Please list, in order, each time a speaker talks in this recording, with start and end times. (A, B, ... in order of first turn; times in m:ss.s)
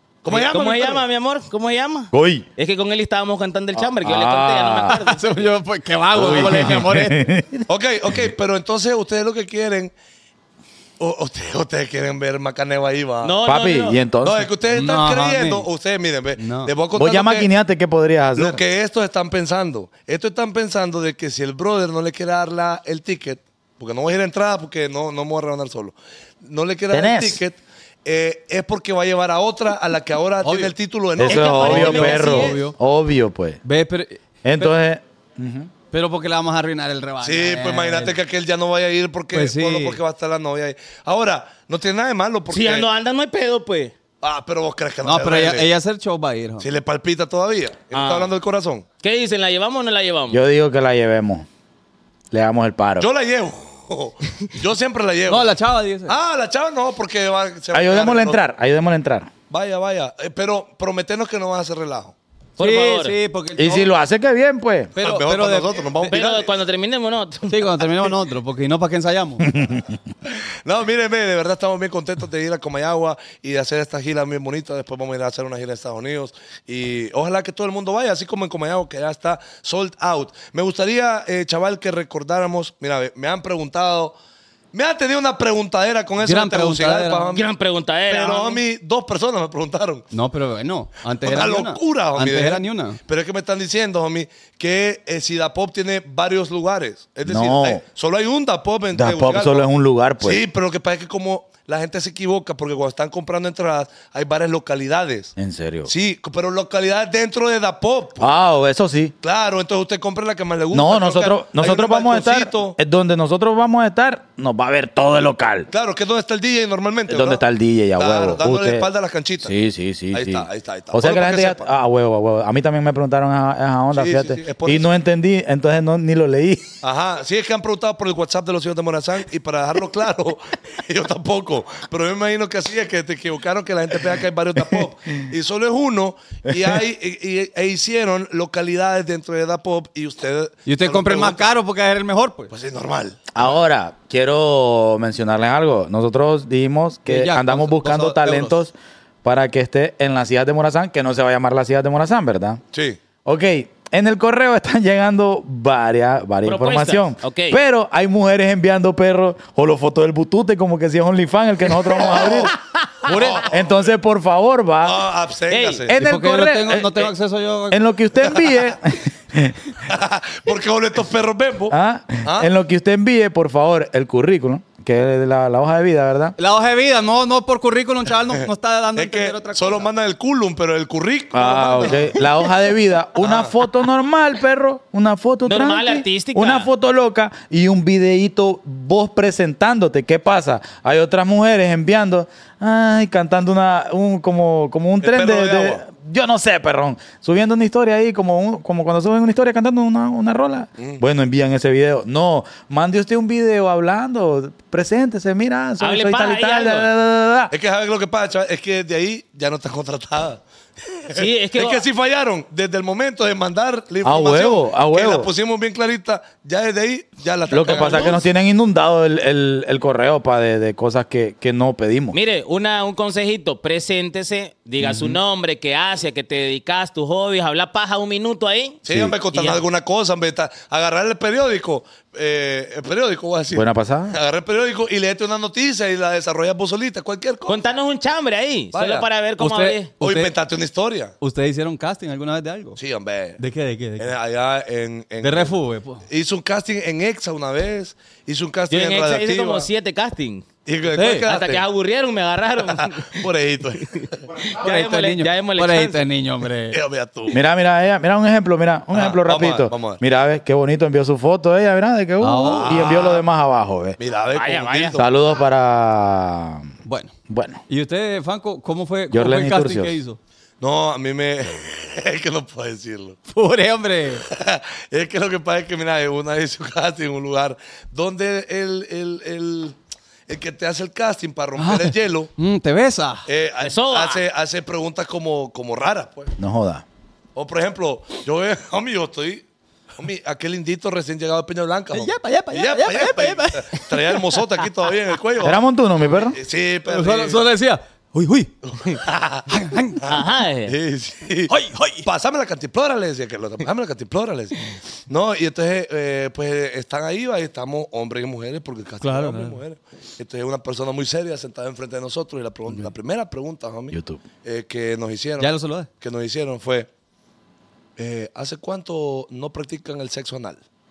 0:00.2-0:01.0 A
0:00.3-0:05.4 B
0:02.1-0:02.4 C
0:03.8-0:05.0 C
0:04.9-0:07.2 D
0:06.1-0:07.6 C
0:07.7-0:09.9 A
0:11.0-0:13.4 A
0:13.2-0:14.0 B
0:13.4-0:14.5 C
0:14.2-0:17.5 A
0:14.7-0:15.7 D
0:16.4-0:16.7 D
0:16.9-0:18.6 C
0:18.4-0:32.2 A
0:26.9-0:27.4 C
0:30.4-0:30.7 D
0:31.2-0:33.6 C
0:31.2-0:32.6 B
0:31.6-0:32.8 D
0:33.6-0:34.7 D
0:34.4-0:35.7 C
0:35.9-0:38.2 D
0:37.2-0:42.8 A
0:39.3-0:40.0 D
0:42.5-0:43.9 B
0:44.2-0:45.7 A
0:45.0-0:46.7 D
0:46.6-0:48.8 A
0:47.9-0:48.3 B
0:49.0-0:50.4 B
0:50.3-0:51.5 C
0:52.3-0:53.1 C
0:53.0-0:55.5 A
0:55.3-0:56.2 D
0:56.1-0:58.4 A
0:57.7-0:59.3 C
0:59.5-1:02.1 A
1:02.6-1:03.2 B
1:02.6-1:03.9 D
1:03.6-1:04.9 C
1:05.0-1:06.1 D
1:05.0-1:06.5 A
1:06.1-1:07.8 B
1:07.5-1:09.5 D
1:09.4-1:09.9 C
1:10.3-1:24.2 A
1:24.7-1:27.4 A
1:26.2-1:27.3 D
1:27.3-1:28.6 B
1:28.1-1:30.0 A
1:30.1-1:33.0 D
1:31.2-1:39.6 A
1:37.2-1:37.8 C
1:38.9-1:40.4 C
1:40.2-1:45.3 A
1:45.4-1:45.9 C
1:45.8-1:48.3 A
1:48.2-1:49.1 C
1:49.2-1:52.8 A
1:50.7-1:55.7 C
1:55.7-1:57.4 A
1:57.1-1:58.9 C
1:58.0-1:59.6 A
1:59.4-2:06.8 C
2:00.1-2:01.7 A
2:03.9-2:04.9 A
2:06.8-2:21.5 A
2:14.6-2:14.8 C
2:16.5-2:16.8 C
2:20.6-2:22.5 D
2:22.5-2:23.4 A
2:23.3-2:32.6 C
2:27.1-2:28.6 D
2:32.7-2:33.0 A
2:33.2-2:42.5 C
2:36.4-2:37.6 B
2:42.0-2:42.5 A
2:43.0-2:43.5 D
2:43.0-2:43.9 A
2:43.4-2:45.0 C
2:44.8-2:45.9 A
2:45.5-2:45.9 B
2:45.8-2:47.1 C
2:46.0-2:47.8 D
2:47.7-2:49.6 C
2:49.8-2:52.5 A
2:51.7-2:56.4 C
2:56.4-2:59.9 D
2:59.0-3:02.2 A
3:01.3-3:27.5 C
3:03.2-3:03.5 A
3:05.4-3:06.7 B
3:15.0-3:15.8 A
3:25.8-3:26.9 B
3:27.5-3:38.2 A
3:31.1-3:31.8 B
3:34.0-3:35.3 C
3:37.5-3:42.2 C
3:37.7-3:38.1 B
3:42.1-3:48.8 B
3:44.8-3:45.2 C
3:48.8-3:57.6 A
3:48.9-3:49.1 C
3:49.3-3:49.6 B
3:53.5-3:54.2 C
3:57.5-3:59.9 B
3:58.7-3:59.0 A
3:59.4-4:00.3 D
4:00.0-4:01.1 A
4:01.2-4:02.8 D
4:02.8-4:03.4 A
4:03.4-4:04.2 D
4:04.0-4:05.5 A
4:05.2-4:06.0 D
4:06.1-4:09.7 A
4:08.7-4:10.4 B
4:10.6-4:11.6 A
4:10.9-4:11.3 D
4:11.2-4:13.2 B
4:12.6-4:14.3 A
4:14.5-4:16.1 B
4:14.6-4:16.8 D
4:16.7-4:17.4 A
4:17.3-4:24.0 C
4:18.9-4:20.0 A
4:22.2-4:23.0 D
4:22.5-4:23.2 A
4:24.0-4:25.1 A
4:24.3-4:25.0 B
4:25.0-4:26.7 C
4:26.8-4:27.1 D
4:27.3-4:27.6 C
4:27.7-4:30.2 D
4:29.1-4:30.0 C
4:30.6-4:33.2 A
4:33.3-4:34.2 D
4:34.3-4:39.8 A
4:40.3-4:42.3 A
4:41.6-4:43.3 D
4:43.3-4:46.3 A
4:43.6-4:44.2 B
4:46.4-4:46.8 C
4:47.3-4:49.4 A
4:50.0-4:55.6 A
4:51.9-4:54.4 D
4:55.4-4:56.4 C
4:56.2-4:57.4 A
4:56.8-4:58.5 D
4:58.6-4:59.5 A
4:59.5-5:00.0 D
5:00.0-5:16.9 A
5:00.1-5:00.7 B
5:01.5-5:02.1 D
5:09.0-5:09.6 D
5:13.9-5:14.2 C
5:15.4-5:15.9 D
5:18.0-5:20.6 A